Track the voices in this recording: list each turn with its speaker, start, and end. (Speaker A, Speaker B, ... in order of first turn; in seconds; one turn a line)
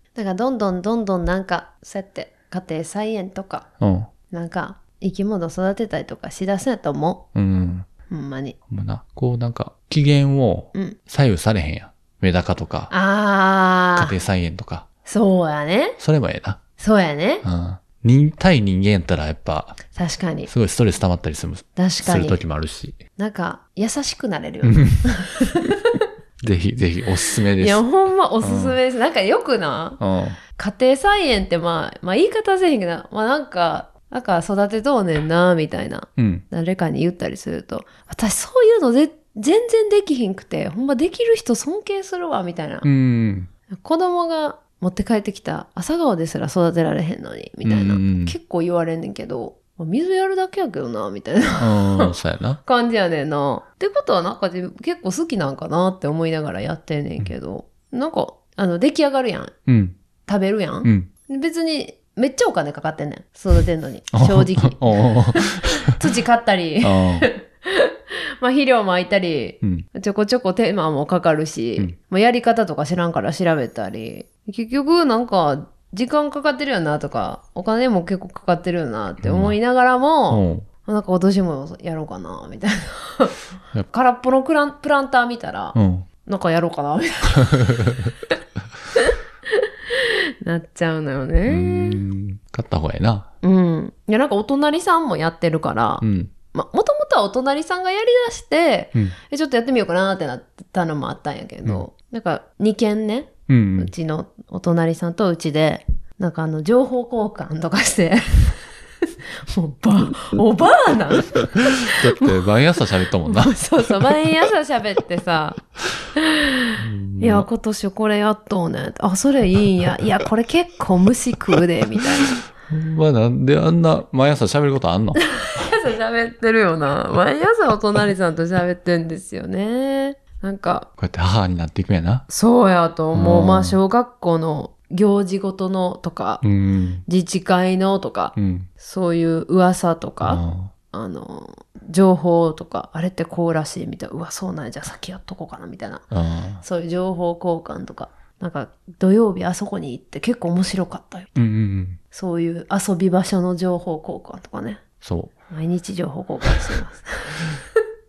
Speaker A: 0.1-3.7
Speaker B: 3.8-4.1
Speaker A: 4.3-7.2
Speaker B: 7.3-7.9
Speaker A: 8.1-8.6
Speaker B: 8.7-12.9
Speaker A: 12.9-14.1
Speaker B: 14.0-14.8
Speaker A: 15.1-16.0
Speaker B: 16.0-16.6
Speaker A: 16.8-17.4
Speaker B: 17.4-19.8
Speaker A: 19.9-20.5
Speaker B: 20.5-23.0
Speaker A: 21.8-22.4
Speaker A: 23.2-26.0
Speaker B: 24.6-25.1
Speaker B: 26.4-27.8
Speaker A: 27.6-30.0
Speaker B: 28.4-28.8
Speaker B: 30.0-30.4
Speaker A: 30.6-42.9
Speaker B: 36.2-36.4
Speaker B: 42.8-43.5
Speaker A: 43.7-59.5
Speaker B: 47.6-48.4
Speaker B: 51.6-52.6
Speaker B: 59.7-60.0
Speaker A: 60.2-87.9
Speaker B: 60.8-61.1
Speaker B: 64.1-66.0
Speaker B: 66.8-67.3
Speaker B: 69.6-69.9
Speaker B: 79.2-79.6
Speaker B: 80.3-80.7
Speaker B: 85.7-86.0
Speaker B: 87.4-88.1
Speaker A: 88.9-92.0
Speaker B: 91.5-93.3
Speaker A: 93.4-108.7
Speaker B: 96.0-96.3
Speaker B: 103.5-103.9
Speaker A: 109.4-112.4
Speaker B: 111.6-114.2
Speaker A: 113.2-115.6
Speaker A: 116.2-122.4
Speaker B: 116.8-117.5
Speaker B: 122.7-125.7
Speaker A: 125.2-130.9
Speaker B: 131.0-132.2
Speaker A: 132.3-136.4
Speaker B: 133.1-133.8
Speaker B: 136.4-137.0
Speaker A: 137.1-146.1
Speaker B: 138.3-138.7
Speaker B: 140.2-140.7
Speaker B: 146.1-146.6
Speaker A: 146.6-151.3
Speaker B: 151.3-152.0
Speaker A: 152.1-154.8
Speaker B: 155.0-155.3
Speaker A: 155.5-157.6